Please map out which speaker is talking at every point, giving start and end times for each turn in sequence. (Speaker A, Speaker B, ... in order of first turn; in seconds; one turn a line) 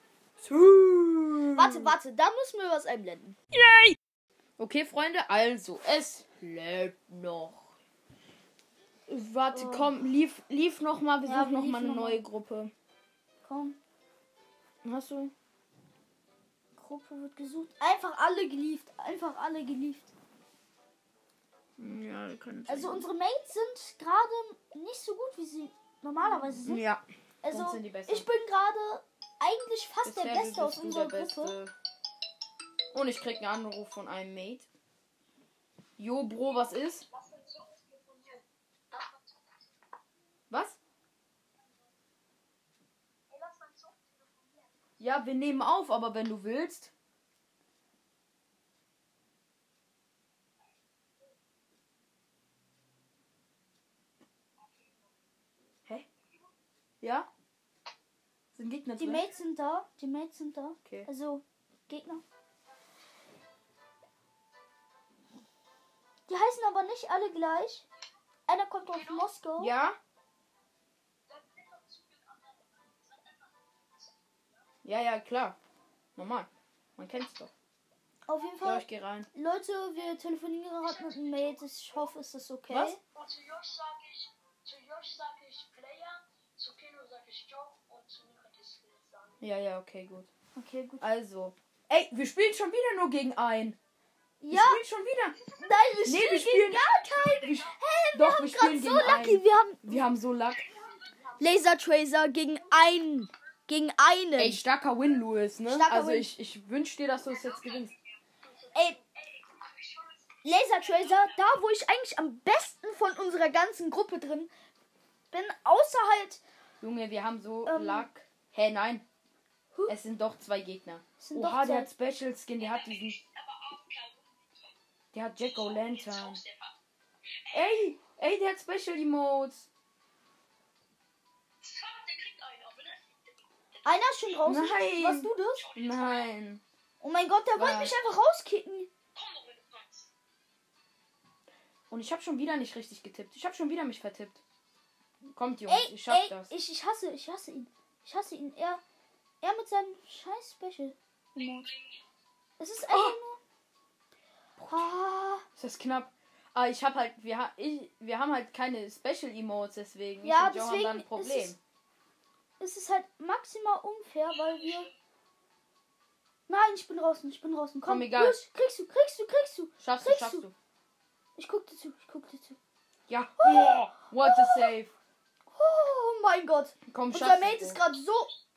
Speaker A: 0.4-1.9
Speaker B: 1.5-3.4
Speaker A: 3.5-4.0
Speaker A: 4.6-7.7
Speaker A: 9.1-12.7
Speaker B: 9.5-9.9
Speaker B: 11.2-12.2
Speaker B: 13.4-13.8
Speaker A: 14.8-15.3
Speaker B: 16.8-20.1
Speaker A: 21.8-23.1
Speaker B: 22.7-26.8
Speaker A: 26.4-28.2
Speaker B: 27.4-31.6
Speaker A: 30.0-31.7
Speaker A: 32.9-34.7
Speaker A: 36.0-37.0
Speaker C: 37.1-39.5
Speaker A: 40.5-40.8
Speaker C: 43.3-44.7
Speaker A: 45.0-46.9
Speaker C: 54.6-55.1
Speaker A: 57.0-57.3
Speaker A: 58.5-59.3
Speaker B: 59.0-62.2
Speaker B: 66.3-67.8
Speaker B: 68.5-69.7
Speaker C: 68.9-69.3
Speaker A: 69.6-70.0
Speaker C: 71.3-74.6
Speaker A: 74.8-75.6
Speaker A: 76.2-77.5
Speaker B: 78.3-83.0
Speaker A: 78.6-79.3
Speaker C: 80.8-82.1
Speaker A: 82.7-83.0
Speaker C: 83.1-89.4
Speaker A: 89.4-90.3
Speaker B: 90.5-91.0
Speaker A: 91.0-93.8
Speaker B: 94.4-94.8
Speaker A: 94.5-95.4
Speaker B: 95.6-100.0
Speaker A: 96.0-100.7
Speaker C: 96.7-97.6
Speaker C: 100.6-101.7
Speaker B: 101.4-104.6
Speaker A: 104.4-107.9
Speaker B: 105.7-106.3
Speaker C: 107.3-111.6
Speaker B: 110.4-114.5
Speaker B: 115.3-116.4
Speaker A: 116.8-119.0
Speaker B: 117.7-118.1
Speaker A: 119.9-123.2
Speaker B: 121.2-121.9
Speaker C: 122.6-124.8
Speaker A: 125.1-126.4
Speaker C: 125.3-126.7
Speaker C: 127.4-127.8
Speaker A: 127.5-129.7
Speaker C: 131.6-134.3
Speaker B: 133.8-135.7
Speaker A: 134.4-136.6
Speaker C: 135.5-136.3
Speaker B: 137.0-138.9
Speaker A: 137.5-137.9
Speaker C: 139.1-140.1
Speaker A: 141.9-144.4
Speaker A: 145.3-146.5
Speaker B: 145.7-148.8
Speaker B: 149.4-151.7
Speaker C: 151.3-152.0
Speaker B: 152.6-153.4
Speaker A: 152.8-153.2
Speaker A: 154.6-154.9
Speaker B: 154.7-155.4
Speaker A: 155.6-161.6
Speaker B: 160.2-161.5
Speaker B: 162.6-164.9
Speaker C: 164.3-164.9
Speaker B: 166.5-170.4
Speaker A: 167.8-168.4
Speaker A: 169.8-170.5
Speaker B: 171.3-172.6
Speaker A: 173.1-174.9
Speaker B: 173.4-174.7
Speaker B: 175.5-178.3
Speaker A: 176.9-177.8